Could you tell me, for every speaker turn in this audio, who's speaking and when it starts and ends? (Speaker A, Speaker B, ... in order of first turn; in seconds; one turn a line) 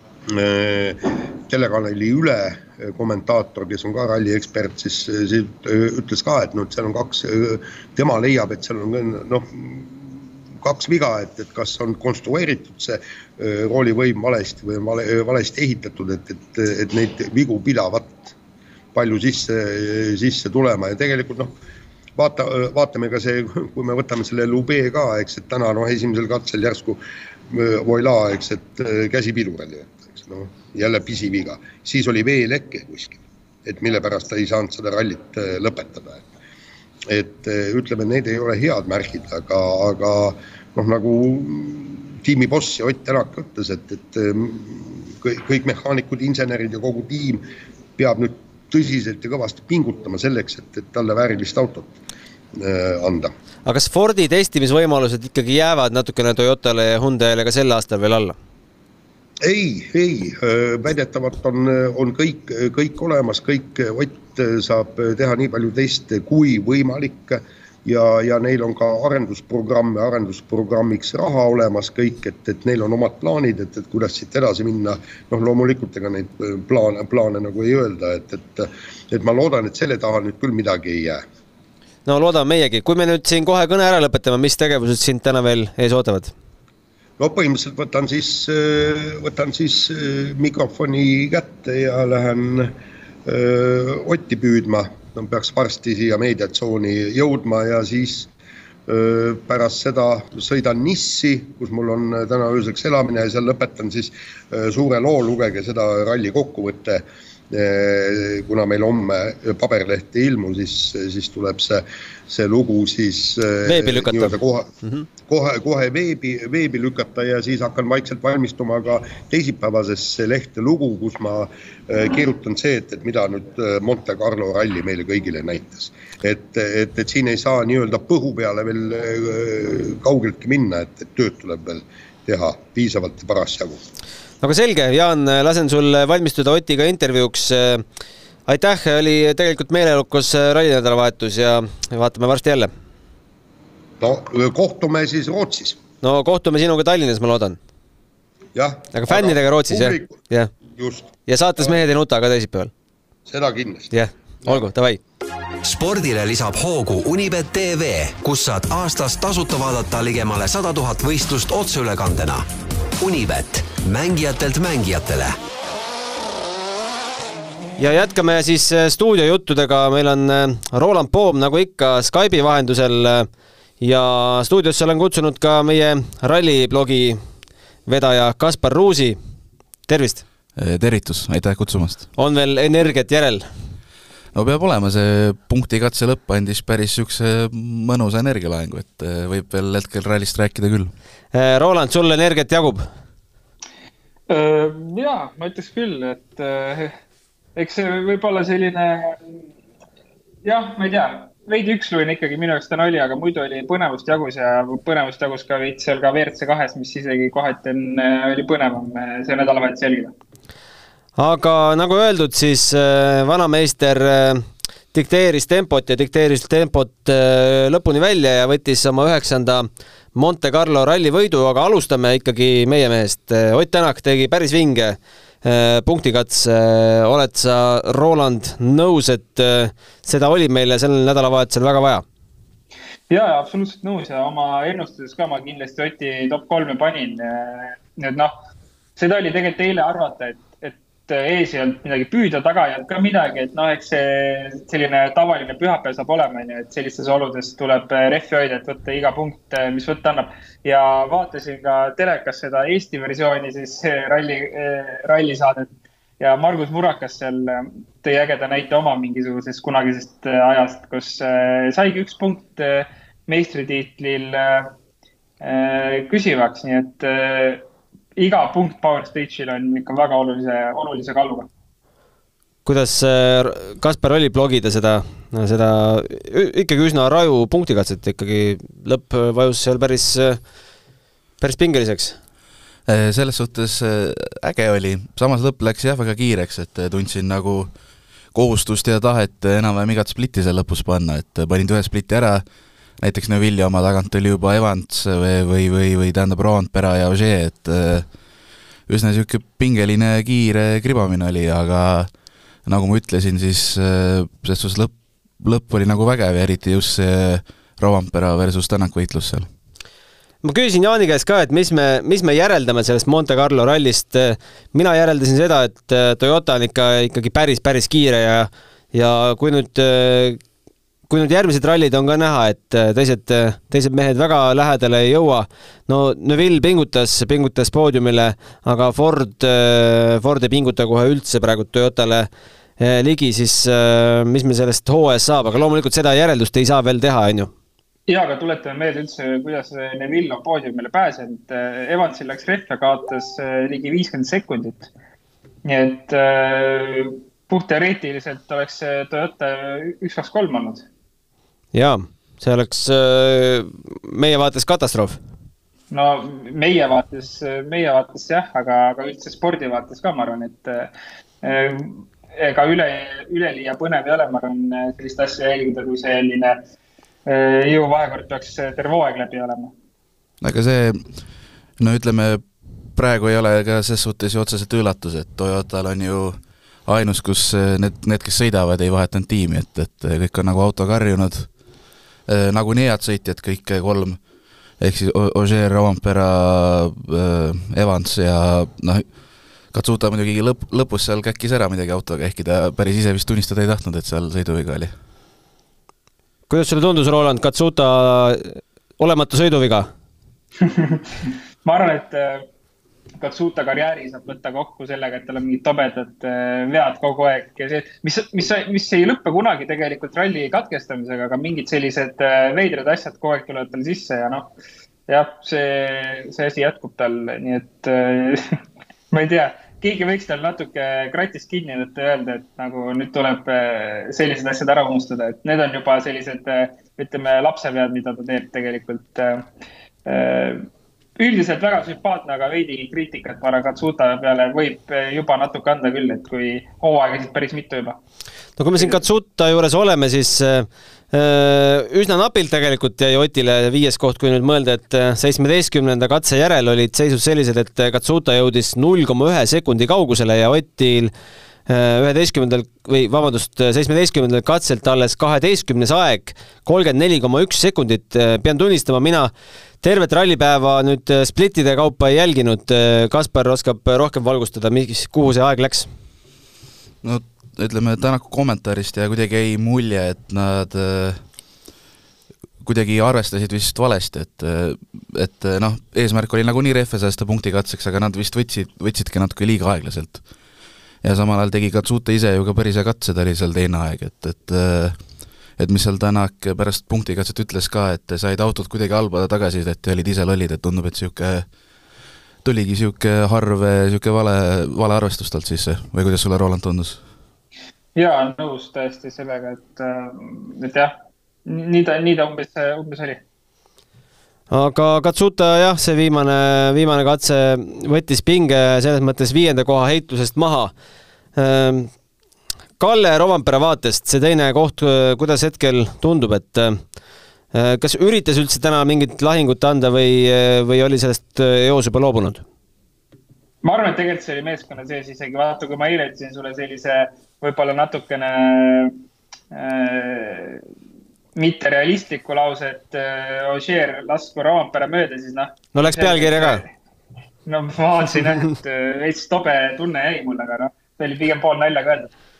Speaker A: 0.3-18.3
Speaker A: 18.9-21.6
Speaker A: 22.2-36.3
Speaker A: 37.0-47.5
Speaker A: 48.0-51.9
Speaker A: 52.5-53.3
Speaker B: 53.7-58.4
Speaker A: 59.4-81.2
Speaker B: 82.1-86.3
Speaker A: 87.2-98.3
Speaker A: 98.9-114.7
Speaker B: 113.7-115.1
Speaker A: 115.2-133.8
Speaker B: 134.4-137.8
Speaker B: 138.5-142.7
Speaker A: 144.0-145.8
Speaker B: 146.0-147.6
Speaker A: 148.6-151.1
Speaker B: 148.9-150.5
Speaker B: 151.3-152.7
Speaker A: 153.3-153.9
Speaker B: 153.9-155.0
Speaker C: 155.6-162.5
Speaker C: 163.0-165.4
Speaker B: 167.8-173.3
Speaker B: 173.8-177.2
Speaker B: 177.9-179.2
Speaker B: 179.9-180.2
Speaker D: 180.6-182.1
Speaker B: 182.2-183.5
Speaker D: 184.3-190.9
Speaker B: 191.3-192.9
Speaker E: 194.3-196.9
Speaker E: 197.6-199.4
Speaker E: 200.4-210.1
Speaker B: 211.2-232.0
Speaker E: 233.1-238.3
Speaker E: 239.0-255.7
Speaker E: 256.2-264.7
Speaker E: 265.4-271.5
Speaker B: 272.6-280.4
Speaker B: 281.4-282.2
Speaker D: 282.9-287.7
Speaker D: 288.3-292.4
Speaker D: 293.0-298.1
Speaker D: 298.9-302.1
Speaker D: 302.6-309.5
Speaker B: 310.4-320.4
Speaker B: 321.1-337.5
Speaker E: 338.1-344.9
Speaker E: 345.6-350.9
Speaker B: 351.7-355.2
Speaker E: 355.9-366.6
Speaker E: 367.3-369.7
Speaker D: 370.4-371.1
Speaker D: 371.8-381.6
Speaker D: 382.3-384.2
Speaker D: 384.8-389.1
Speaker D: 389.7-394.9
Speaker B: 396.5-399.9
Speaker E: 400.6-402.5
Speaker E: 403.2-414.5
Speaker E: 415.1-418.6
Speaker E: 419.1-429.5
Speaker E: 430.1-430.7
Speaker E: 431.2-438.0
Speaker B: 438.6-451.1
Speaker B: 451.7-459.3
Speaker B: 459.8-465.9
Speaker D: 467.0-471.2
Speaker D: 472.6-480.2
Speaker D: 481.0-491.5
Speaker D: 492.4-497.0
Speaker E: 498.0-503.2
Speaker B: 504.5-510.7
Speaker B: 511.4-511.9
Speaker B: 512.8-516.8
Speaker B: 517.5-522.4
Speaker E: 523.6-529.0
Speaker E: 529.5-530.6
Speaker E: 531.4-536.7
Speaker B: 535.8-536.6
Speaker E: 537.5-542.1